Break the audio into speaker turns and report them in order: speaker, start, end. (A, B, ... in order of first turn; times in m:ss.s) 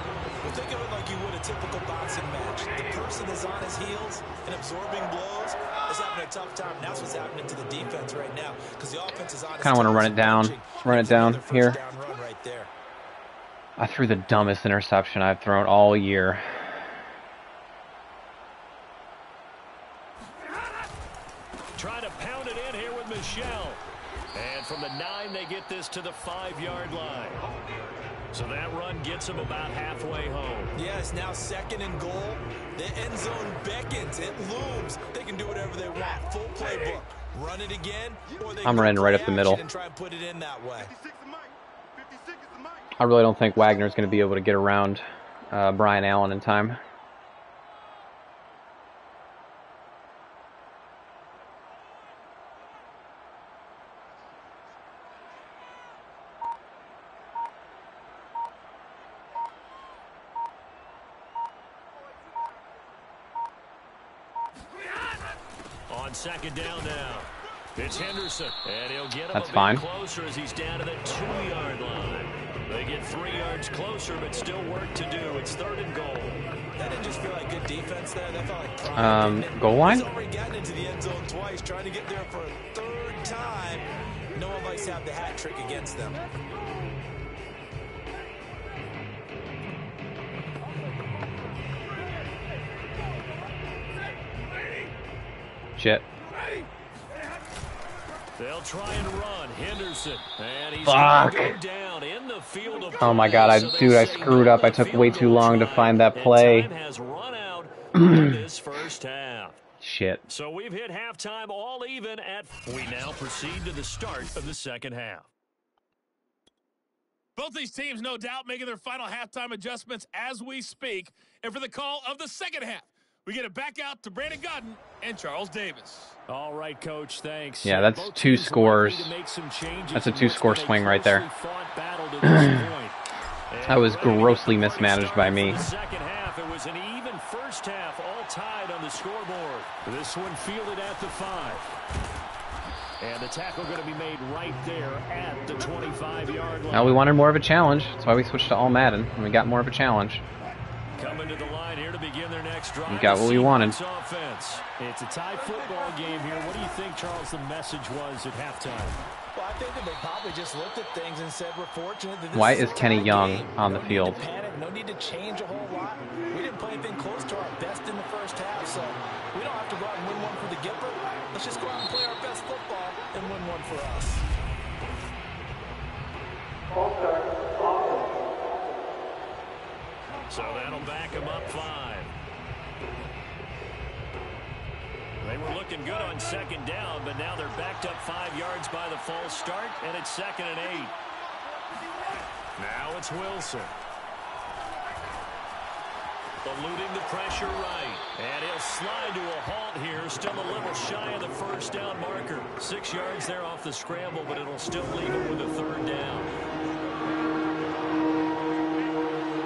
0:00.4-0:12.7 A
0:09.6-0:11.8 B
0:13.8-0:16.6 B
0:21.7-0:23.8 C
0:24.3-0:27.4 C
0:28.3-0:30.7 C
0:30.7-0:40.9 A
0:38.6-0:39.6 B
0:43.0-0:46.8 B
1:05.9-1:16.4 C
1:09.3-1:09.8 B
1:16.8-1:26.2 A
1:19.0-1:20.1 B
1:35.8-1:36.0 B
1:38.4-1:49.6 C
1:40.8-1:41.6 B
1:43.0-1:46.7 B
1:48.0-1:48.4 B
1:49.8-1:50.2 B
1:50.2-1:55.3 C
1:57.4-2:06.2 D
2:06.3-2:13.0 C
2:07.6-2:09.1 B
2:09.9-2:11.2 B
2:12.2-2:12.6 B
2:13.5-2:21.7 C
2:13.6-2:15.6 B
2:23.0-2:27.0 C
2:26.7-2:30.2 B
2:31.0-2:39.0 C
2:32.9-2:33.8 B
2:39.3-2:54.2 A
2:42.3-2:44.2 B
3:00.3-3:02.1 C
3:05.2-3:10.9 C
3:12.6-3:13.7 C
3:16.4-3:26.3 C